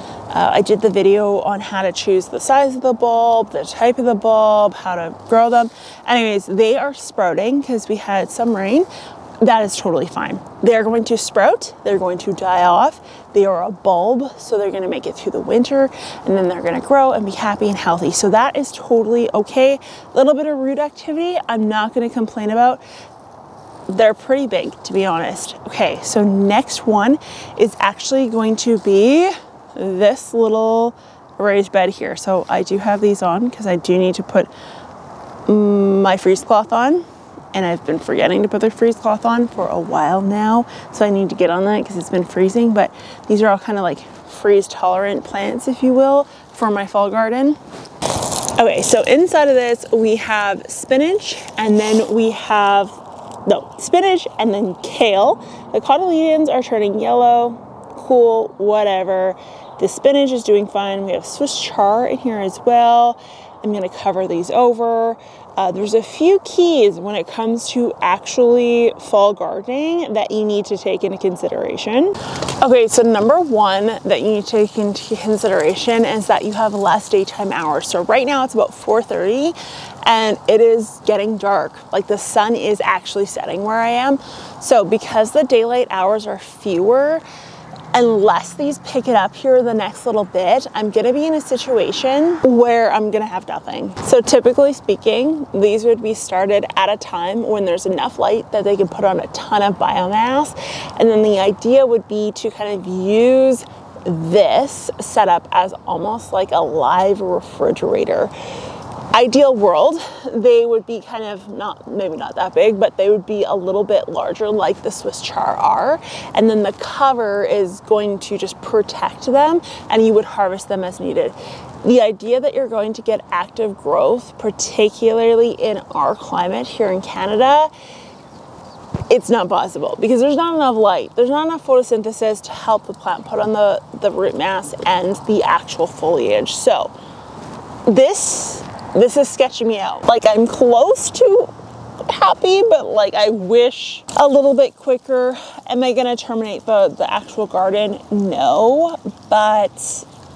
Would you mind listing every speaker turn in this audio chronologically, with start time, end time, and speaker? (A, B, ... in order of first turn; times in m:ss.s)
0:00.3-0:08.9 A
0:09.4-0:22.8 A
0:23.9-0:34.5 A
0:35.5-0:47.6 A
0:48.6-1:27.2 A
1:27.9-1:48.3 A
1:49.1-2:07.7 A
2:09.1-2:16.9 A
2:17.9-2:21.5 A
2:22.0-2:30.1 A